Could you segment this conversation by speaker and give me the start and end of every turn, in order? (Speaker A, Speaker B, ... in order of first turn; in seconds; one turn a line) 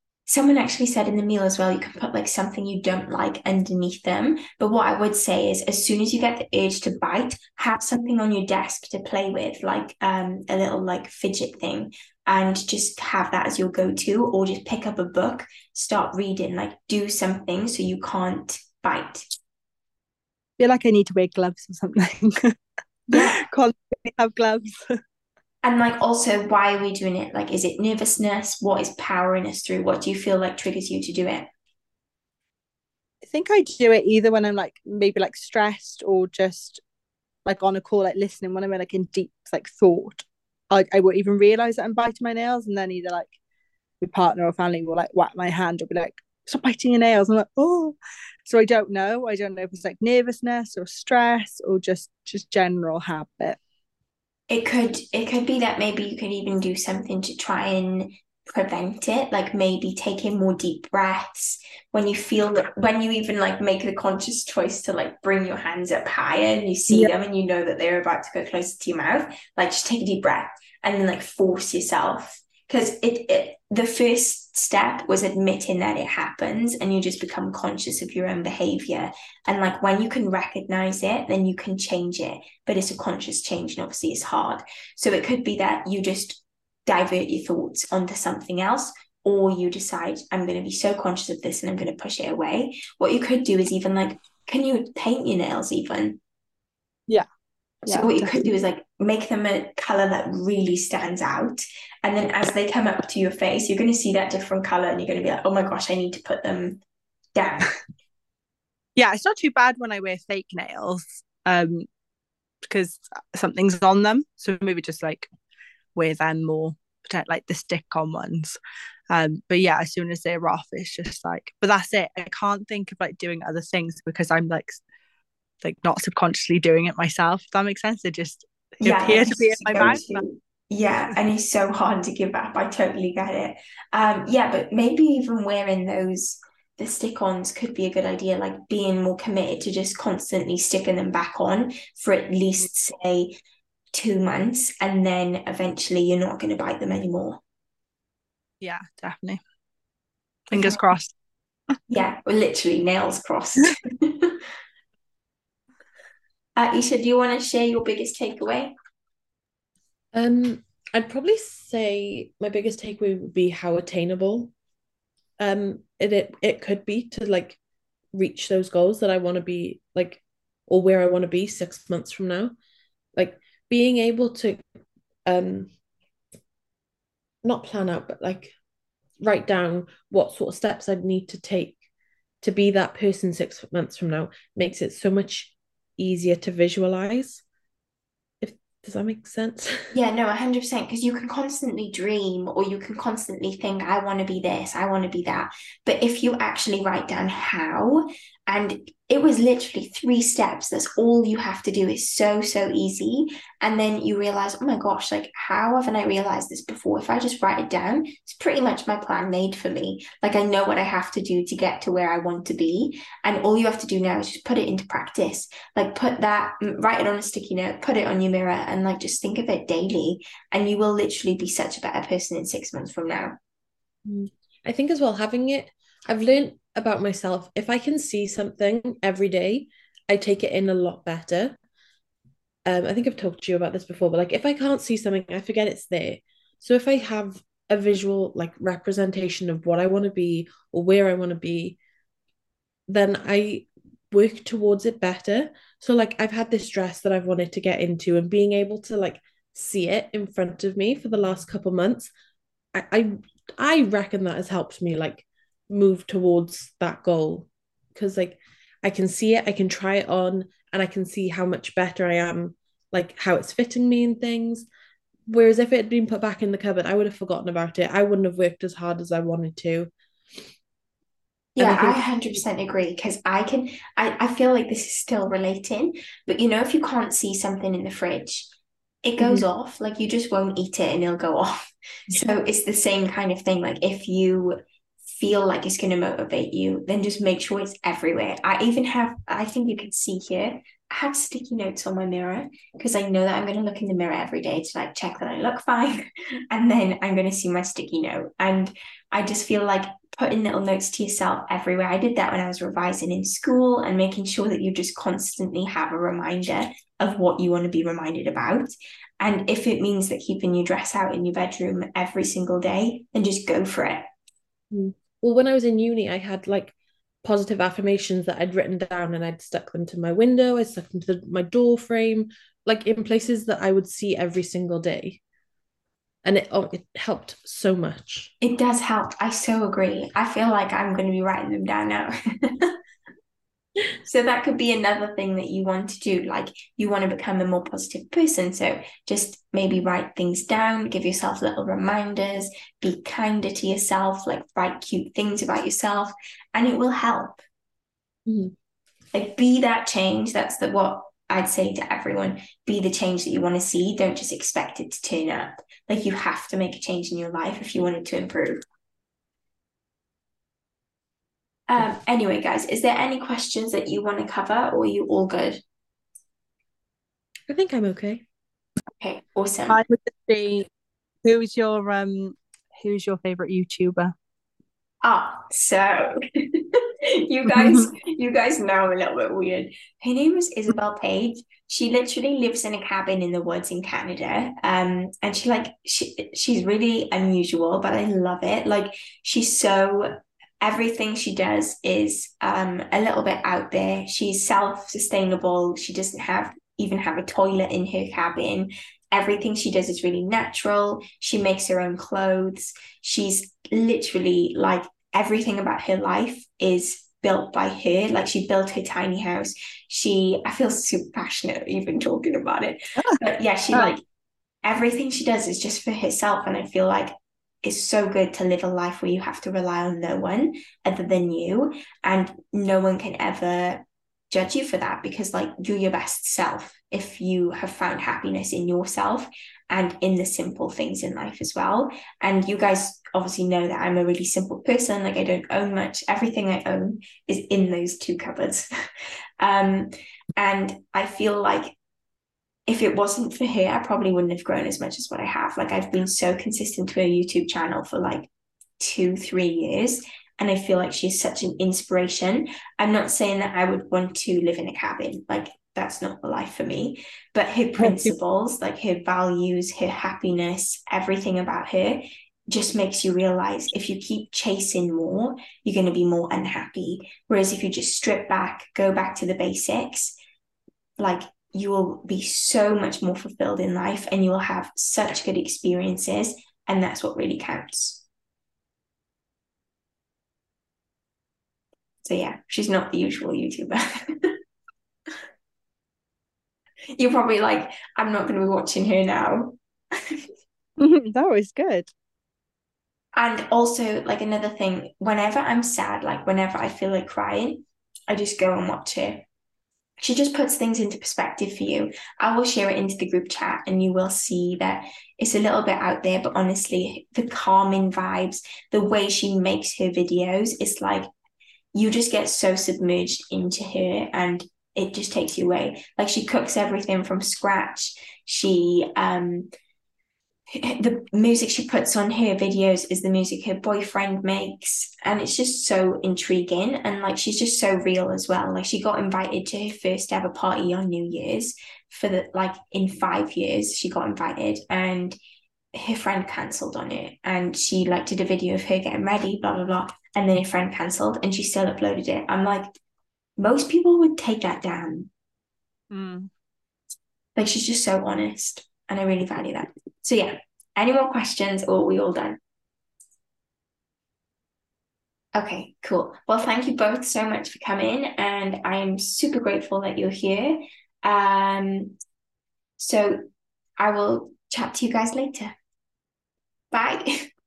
Speaker A: 0.3-19.2
Speaker B: 20.6-22.6
Speaker A: 23.1-23.4
Speaker B: 23.1-25.0
Speaker A: 25.6-31.5
Speaker B: 33.2-36.8
Speaker B: 37.5-43.3
Speaker B: 44.0-53.6
Speaker A: 54.5-96.2
Speaker B: 97.8-98.5
Speaker A: 97.9-106.8
Speaker A: 107.3-107.7
Speaker B: 109.0-111.8
Speaker B: 112.6-115.3
Speaker B: 115.9-118.6
Speaker B: 119.1-124.8
Speaker B: 125.6-130.2
Speaker A: 128.8-143.4
Speaker A: 143.9-147.4
Speaker B: 148.6-149.4
Speaker B: 150.5-151.1
Speaker A: 150.5-150.8
Speaker A: 151.9-154.4
Speaker A: 156.6-158.7
Speaker C: 160.1-164.5
Speaker C: 165.4-167.6
Speaker C: 168.1-172.5
Speaker C: 173.2-174.6
Speaker C: 175.2-175.7
Speaker C: 177.4-178.5
Speaker C: 179.2-181.8
Speaker C: 182.4-187.4
Speaker C: 188.4-189.9
Speaker A: 189.9-223.3
Speaker C: 224.1-231.6
Speaker C: 232.7-241.8
Speaker C: 242.9-252.1
Speaker C: 252.7-264.7
Speaker C: 265.3-269.9
Speaker A: 271.6-278.5
Speaker C: 271.6-272.0
Speaker A: 279.0-281.6
Speaker C: 279.2-279.4
Speaker A: 282.1-314.1
Speaker C: 314.7-325.2
Speaker C: 326.2-328.3
Speaker A: 328.4-332.8
Speaker A: 334.0-347.4
Speaker C: 348.3-348.5
Speaker A: 349.1-358.6
Speaker A: 361.7-365.6
Speaker C: 367.5-368.2
Speaker A: 369.0-369.8
Speaker B: 369.7-370.7
Speaker B: 371.2-374.1
Speaker A: 375.0-414.0
Speaker B: 377.4-377.9
Speaker A: 414.6-417.1
Speaker A: 417.6-438.7
Speaker A: 439.4-441.8
Speaker A: 442.7-470.1
Speaker B: 457.8-458.1
Speaker A: 471.0-478.0
Speaker A: 482.0-484.4
Speaker A: 486.9-490.2
Speaker B: 490.8-491.9
Speaker A: 493.1-499.2
Speaker A: 500.0-511.1
Speaker A: 511.7-519.5
Speaker A: 520.5-535.2
Speaker A: 535.7-542.7
Speaker A: 543.4-545.1
Speaker B: 545.9-546.3
Speaker A: 547.4-552.4
Speaker A: 555.3-562.0
Speaker A: 562.8-563.2
Speaker A: 563.8-565.5
Speaker A: 566.7-567.2